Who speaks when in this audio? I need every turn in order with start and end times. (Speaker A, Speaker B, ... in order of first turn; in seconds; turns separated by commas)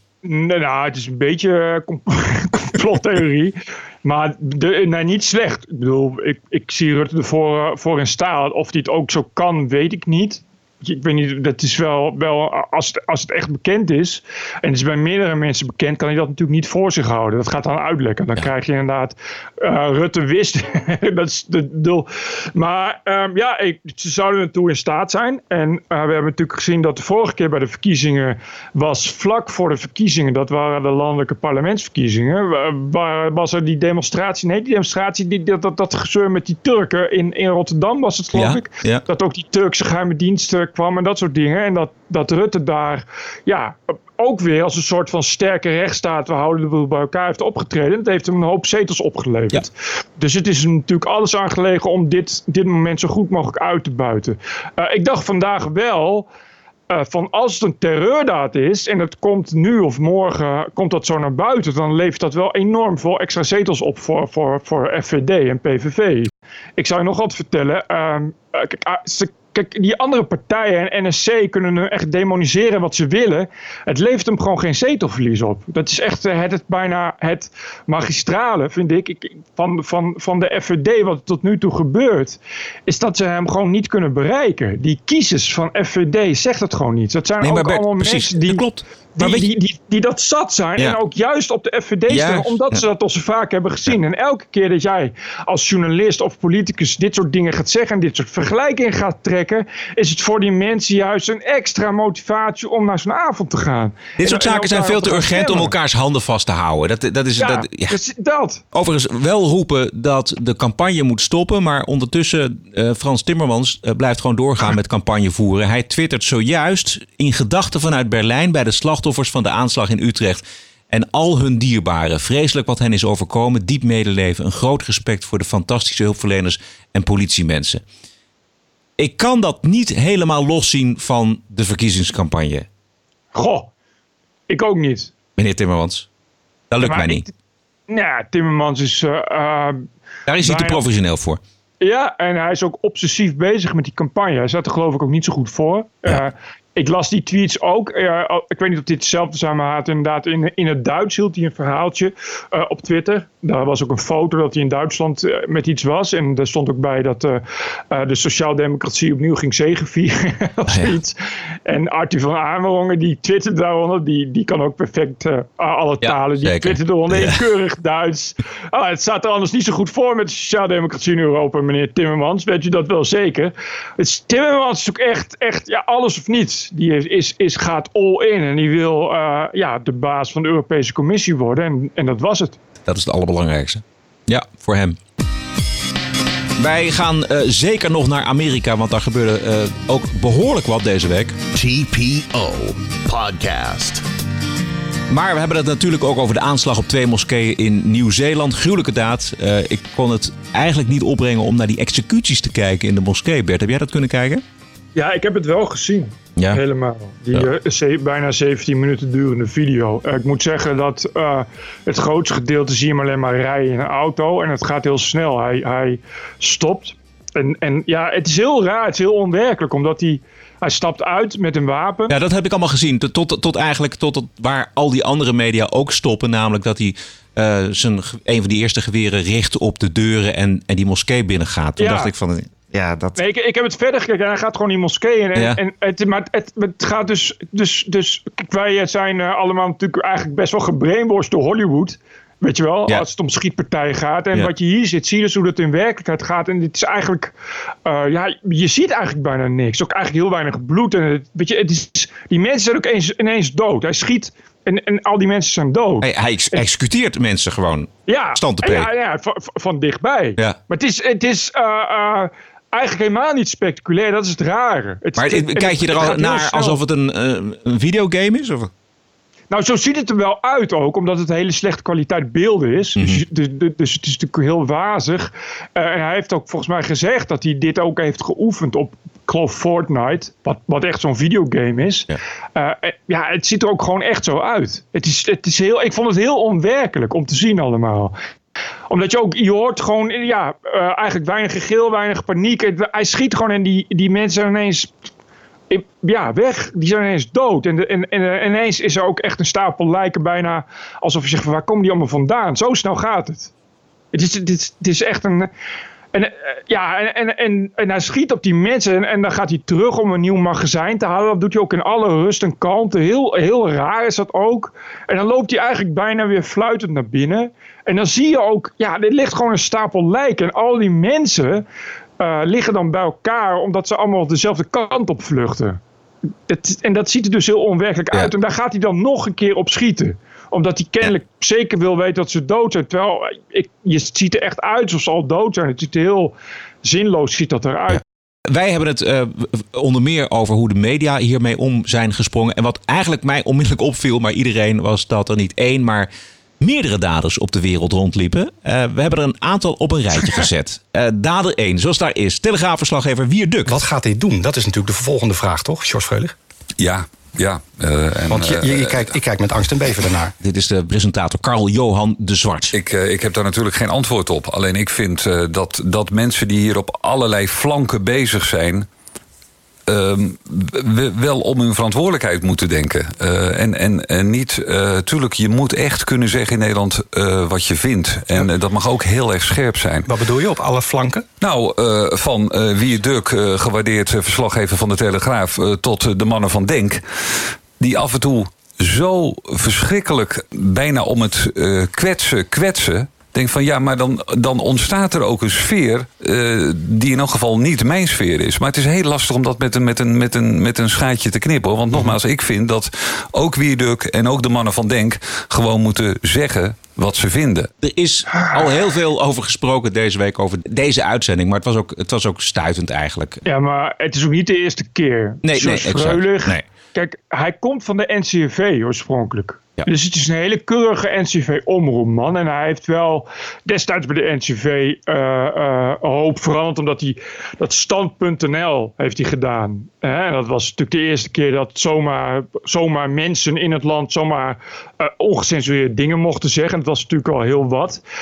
Speaker A: 0.2-56.2, Speaker B: 38.3-39.0, Speaker A: 56.9-88.6, Speaker B: 87.4-89.5, Speaker A: 89.2-105.7, Speaker B: 92.1-92.8, Speaker B: 104.2-108.0, Speaker A: 107.4-108.6, Speaker B: 108.7-127.8, Speaker B: 129.0-132.7, Speaker A: 133.3-133.7, Speaker A: 134.5-135.1, Speaker B: 135.4-136.1, Speaker B: 136.7-137.2, Speaker A: 136.8-137.3, Speaker A: 137.9-139.8, Speaker B: 140.3-141.4, Speaker A: 140.4-140.8, Speaker A: 141.8-182.6, Speaker B: 160.7-160.9, Speaker B: 166.0-167.4, Speaker B: 182.8-185.0, Speaker B: 186.6-191.3, Speaker C: 191.5-194.0, Speaker B: 195.1-204.4, Speaker A: 204.9-222.1, Speaker B: 222.1-233.2, Speaker A: 231.8-232.1, Speaker A: 233.2-247.3, Speaker A: 247.8-256.6, Speaker B: 256.0-258.9, Speaker A: 258.1-266.8, Speaker B: 265.1-268.7, Speaker A: 269.5-288.1, Speaker B: 273.0-273.2, Speaker A: 288.9-294.9, Speaker A: 295.7-303.5, Speaker A: 304.1-305.5, Speaker A: 306.1-321.6, Speaker A: 322.2-325.8, Speaker A: 326.5-336.3, Speaker A: 336.8-338.0, Speaker B: 337.9-346.1, Speaker B: 346.6-353.8, Speaker D: 353.6-356.3, Speaker E: 356.8-359.1, Speaker D: 358.3-360.3, Speaker B: 360.4-362.7, Speaker E: 362.7-368.9, Speaker E: 369.9-380.1, Speaker D: 380.0-381.3, Speaker E: 381.4-407.7, Speaker B: 407.8-413.4, Speaker A: 413.4-438.0, Speaker B: 415.4-416.6